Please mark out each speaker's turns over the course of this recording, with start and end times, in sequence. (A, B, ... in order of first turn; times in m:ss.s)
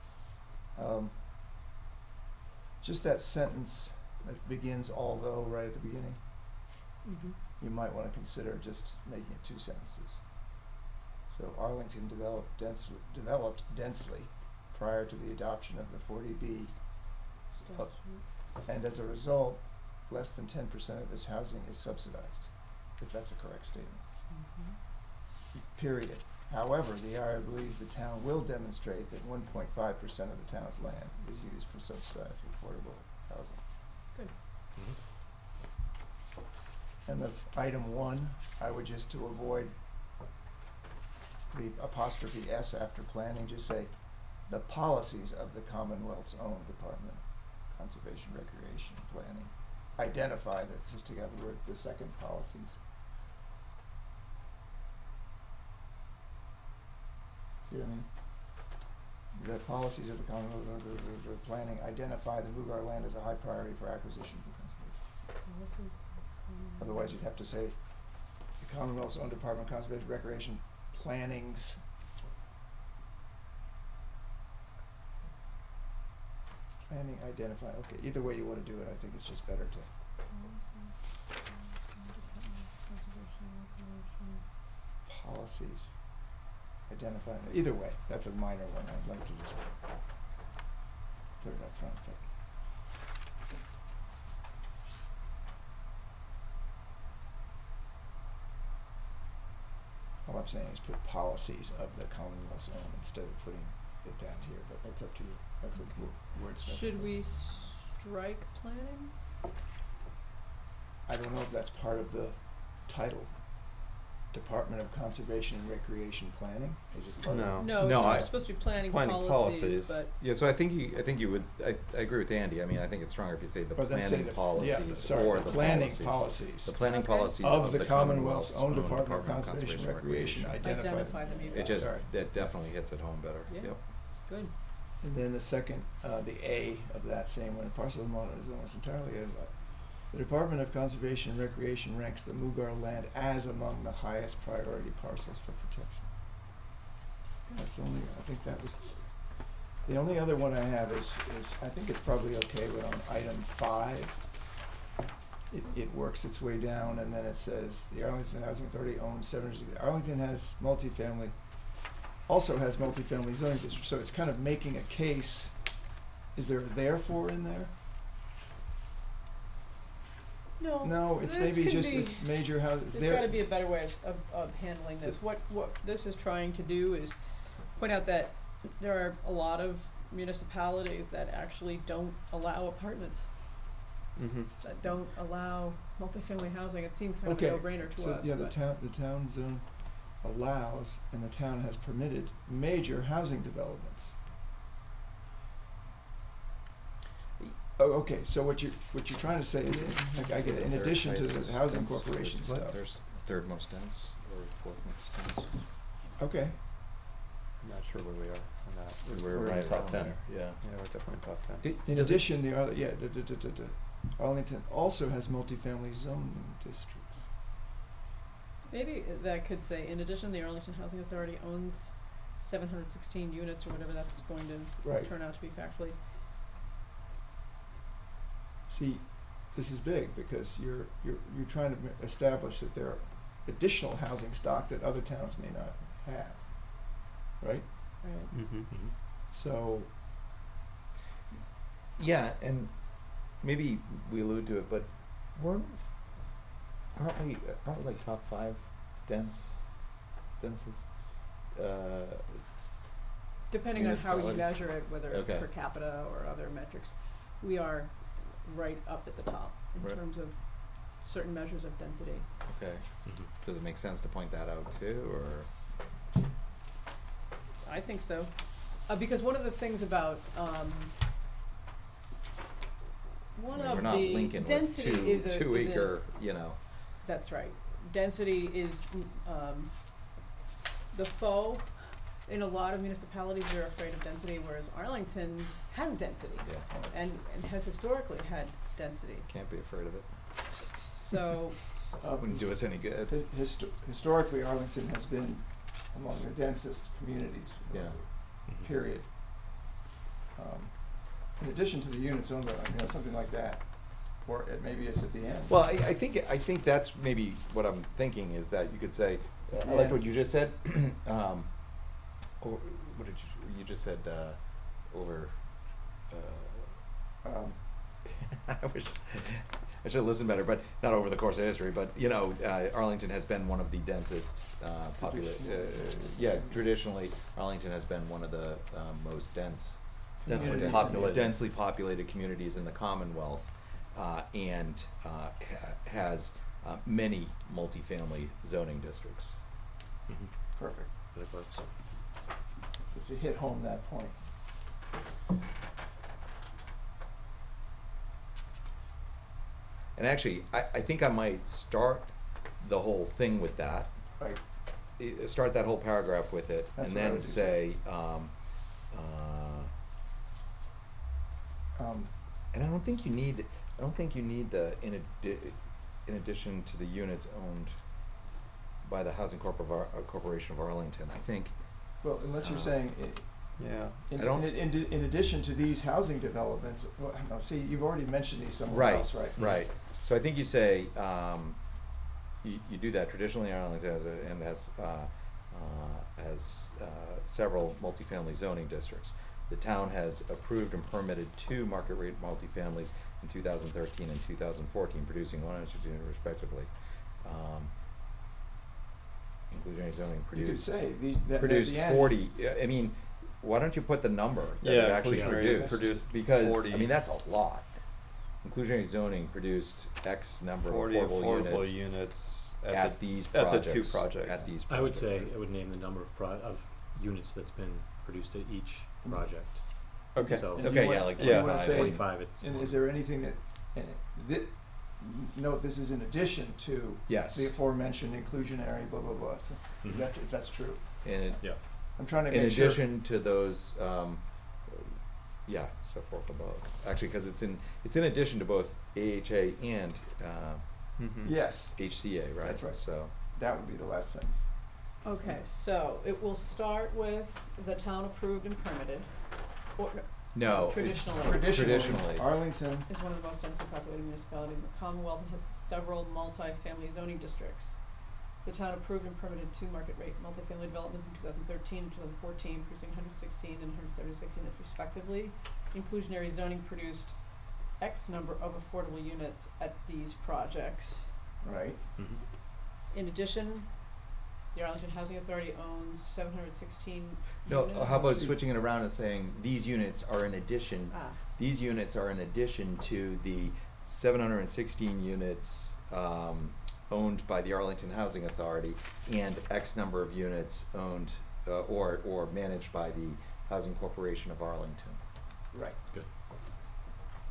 0:00.7-0:01.2 A
0:02.8-0:06.4 A
0:07.0-0:07.4 B
0:07.6-0:10.6 A
0:11.3-0:24.0 A
0:17.5-0:18.2 B
0:24.3-0:24.8 B
0:25.5-0:33.6 A
0:37.0-0:39.8 A
0:41.5-0:52.8 A
0:57.6-0:58.8 A
0:59.3-1:05.0 A
1:05.4-1:07.2 B
1:06.8-1:11.8 A
1:16.9-1:19.9 A
1:20.3-1:24.4 B
1:25.0-1:26.2 A
1:26.9-1:29.8 A
1:31.4-1:32.3 A
1:40.2-1:47.1 A
1:45.7-1:49.1 B
1:51.0-1:57.8 A
1:57.3-2:00.0 C
1:57.6-2:00.1 B
1:57.8-1:58.3 D
2:00.2-2:10.6 D
2:03.8-2:12.3 A
2:06.8-2:07.6 B
2:10.6-2:11.9 B
2:11.5-2:13.8 D
2:13.5-2:14.5 B
2:15.0-2:26.1 A
2:27.5-2:34.5 A
2:35.5-2:47.8 A
2:50.6-3:03.5 B
2:50.8-2:53.4 A
3:04.2-3:04.5 C
3:04.6-3:08.6 B
3:07.2-3:14.2 A
3:17.4-3:22.8 A
3:19.6-3:25.7 D
3:22.4-3:22.7 C
3:26.2-3:26.6 A
3:27.6-3:31.7 C
3:29.0-3:30.9 D
3:29.3-3:30.0 A
3:31.6-3:32.3 D
3:31.8-3:37.3 A
3:38.7-3:46.0 B
3:44.8-3:45.1 A
3:48.7-3:57.7 A
3:58.0-3:58.3 B
3:58.3-3:58.7 C
3:58.7-3:58.9 E
3:59.3-3:59.9 A
4:02.0-4:12.6 D
4:13.5-4:22.3 B
4:13.7-4:15.5 D
4:22.4-4:25.5 D
4:23.0-4:23.3 E
4:27.6-4:31.0 B
4:33.3-4:36.2 B
4:33.5-4:36.6 D
4:37.0-4:40.2 B
4:40.9-4:49.3 B
4:46.4-4:46.7 D
4:49.3-4:50.8 D
4:51.0-4:51.6 B
4:52.0-4:59.6 A
4:52.2-4:53.2 D
4:57.7-4:58.1 D
4:58.4-4:58.7 E
5:00.4-5:05.6 A
5:05.5-5:16.9 D
5:09.6-5:10.0 A
5:17.2-5:17.6 A
5:17.6-5:39.4 D
5:25.0-5:26.6 A
5:30.2-5:31.3 A
5:30.2-5:31.4 C
5:40.1-5:41.9 E
5:40.5-5:40.9 A
5:42.8-5:44.3 A
5:49.9-5:54.0 D
5:54.9-5:59.7 D
5:56.8-5:57.6 A
6:01.8-6:02.1 A
6:02.5-6:08.2 D
6:08.8-6:12.8 D
6:12.0-6:19.6 A
6:13.6-6:14.0 C
6:14.1-6:14.6 D
6:18.7-6:37.7 D
6:39.5-6:51.8 D
6:40.3-6:42.2 A
6:44.6-6:46.9 C
6:45.1-6:45.5 E
6:45.2-6:45.8 A
6:50.6-6:54.5 C
6:52.7-6:55.3 D
6:54.6-7:02.9 E
6:59.0-7:12.8 A
7:00.1-7:01.8 C
7:00.6-7:02.1 D
7:07.1-7:07.5 D
7:09.8-7:10.1 E
7:11.0-7:21.0 D
7:11.4-7:11.7 E
7:21.0-7:21.3 C
7:21.2-7:25.4 A
7:21.8-7:23.1 D
7:25.0-7:31.9 B
7:30.3-7:32.4 D
7:31.1-7:32.9 A
7:32.6-7:51.1 B
7:51.4-7:51.8 A
7:52.0-7:52.2 E
7:52.9-7:58.2 B
7:57.5-8:15.0 D
7:57.9-7:58.4 A
8:00.9-8:01.2 B
8:15.5-8:15.8 A